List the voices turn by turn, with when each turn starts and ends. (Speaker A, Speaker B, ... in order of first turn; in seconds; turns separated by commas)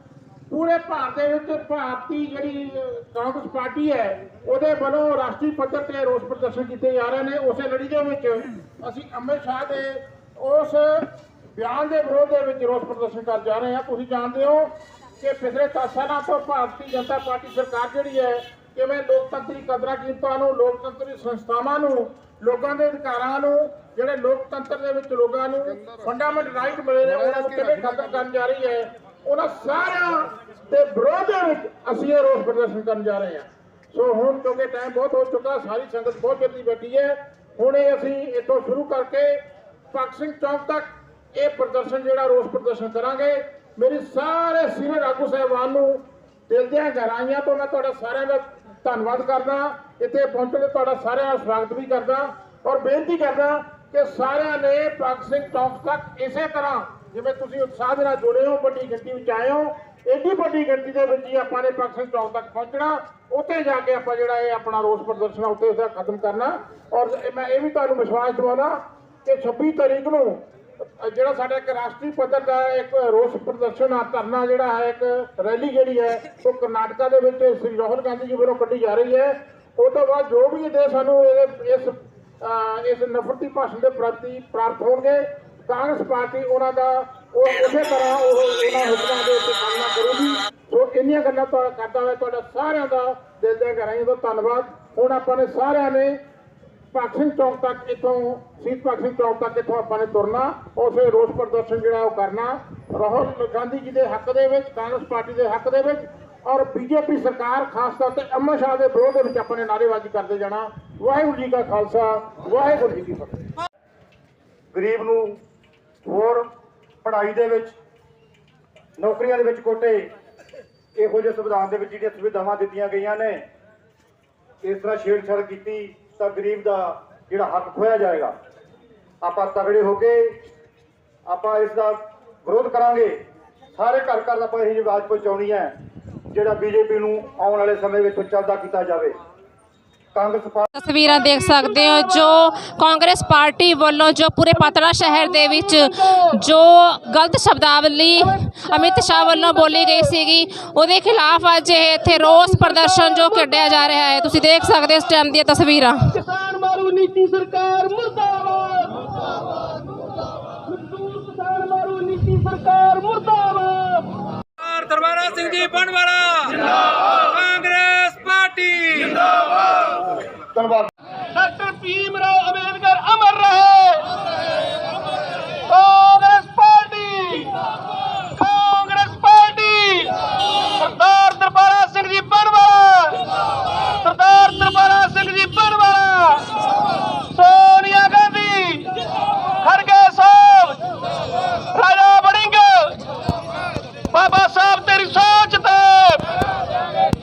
Speaker A: 0.5-39.4, Speaker A: 39.9-96.2, Speaker A: 96.9-113.4, Speaker B: 114.7-115.4, Speaker B: 116.0-116.5, Speaker B: 117.0-117.8, Speaker B: 119.0-120.1, Speaker B: 121.0-123.4, Speaker B: 124.6-128.3, Speaker B: 129.2-130.4, Speaker B: 131.3-133.2, Speaker B: 133.8-135.8, Speaker B: 136.3-139.2, Speaker B: 140.1-140.7, Speaker C: 140.8-156.1, Speaker D: 141.2-142.2, Speaker D: 144.6-146.4, Speaker D: 148.2-150.2, Speaker D: 152.2-153.8, Speaker D: 156.1-164.2, Speaker E: 164.6-169.4, Speaker B: 170.5-170.9, Speaker D: 171.3-174.1, Speaker D: 175.7-177.6, Speaker D: 178.3-180.2, Speaker D: 180.7-183.2, Speaker D: 184.0-186.5, Speaker D: 187.3-188.9, Speaker D: 189.6-190.8, Speaker E: 189.9-190.8, Speaker D: 191.7-193.0, Speaker D: 194.1-196.2, Speaker E: 194.1-195.2